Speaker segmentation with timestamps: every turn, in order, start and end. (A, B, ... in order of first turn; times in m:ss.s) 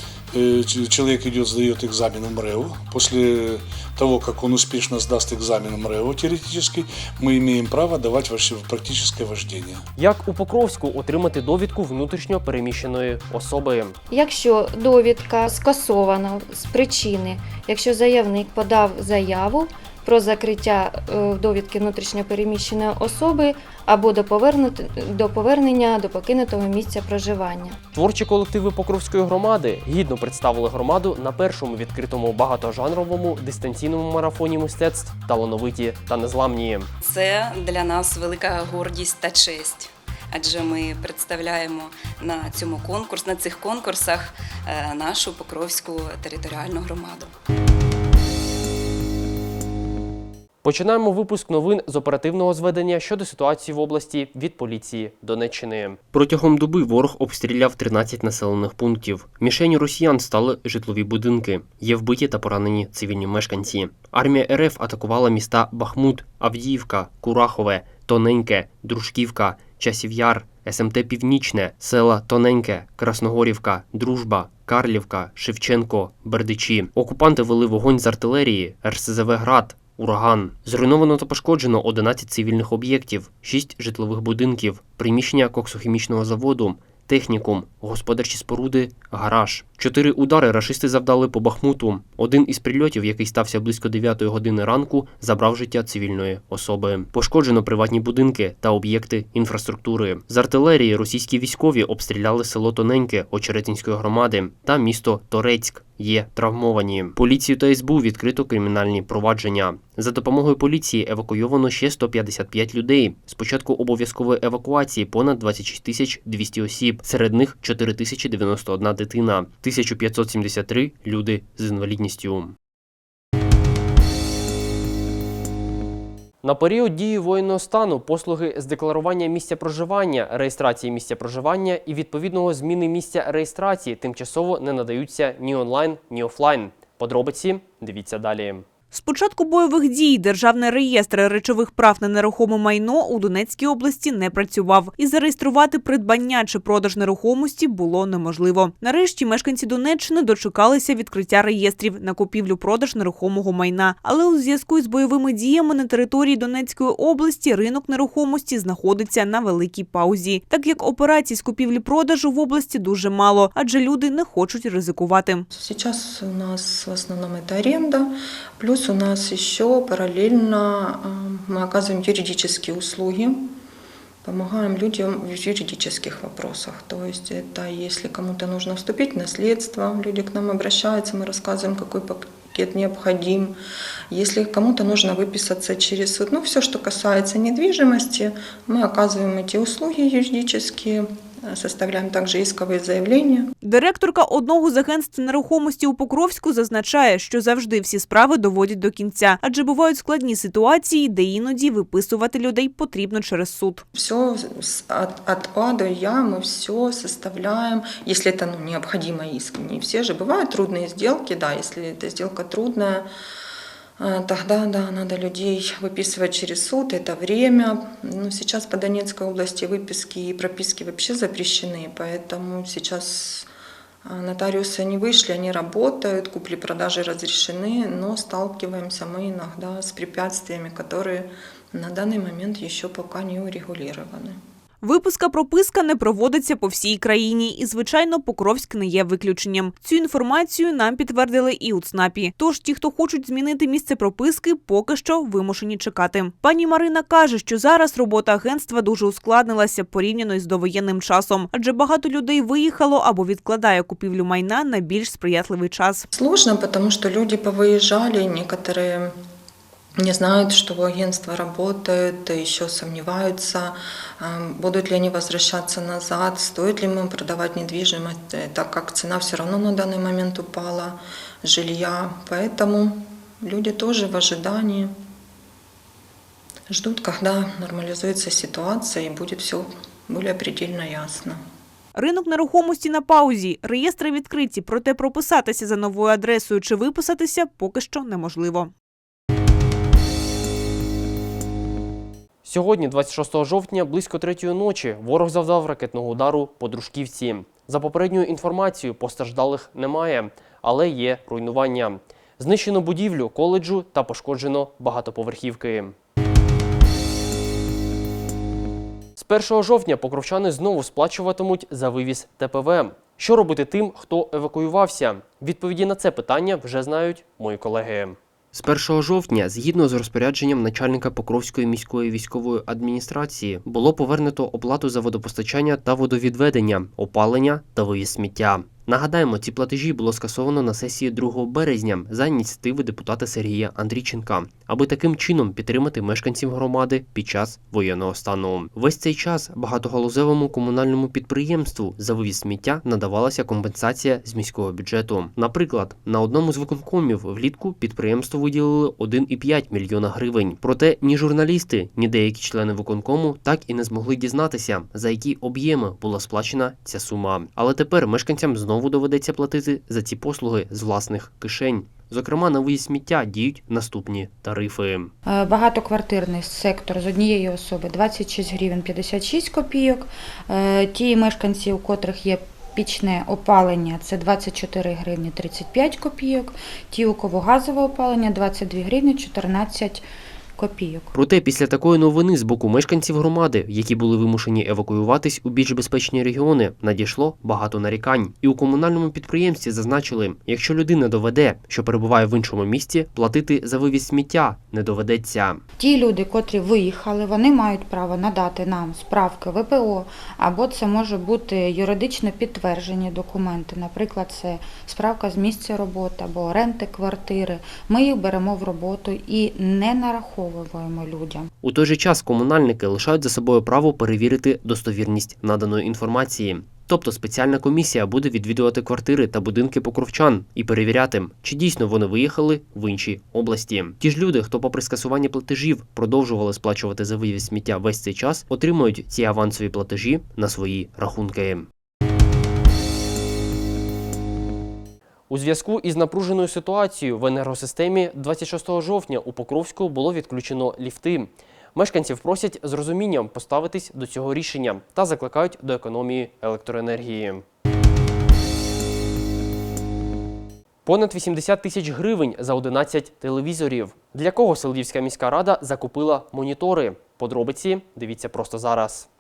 0:00.3-0:09.8 A
0:10.0-0:14.0 B
0:14.1-0:27.8 C
0:27.9-0:36.9 B
0:37.0-0:47.3 D
0:50.6-2:02.5 B
2:06.4-2:18.6 B
2:18.9-2:45.4 E
2:45.5-2:53.5 F
2:54.2-3:03.6 F
3:04.1-3:13.5 F
3:13.6-3:23.8 E
3:23.9-3:33.1 F
3:34.0-3:43.5 F
3:44.0-3:54.4 F
3:54.8-4:16.0 E
4:16.1-4:19.1 F
4:20.0-4:34.9 F
4:36.7-4:41.4 F
4:41.9-4:48.7 E
4:52.4-5:05.9 B
5:09.2-6:05.1 B
6:05.3-6:20.0 G
6:20.6-6:21.1 G
6:21.1-6:35.6 B
6:35.8-6:51.5 G
6:51.6-7:11.7 B
7:15.3-7:27.4 B
7:30.8-7:39.1 B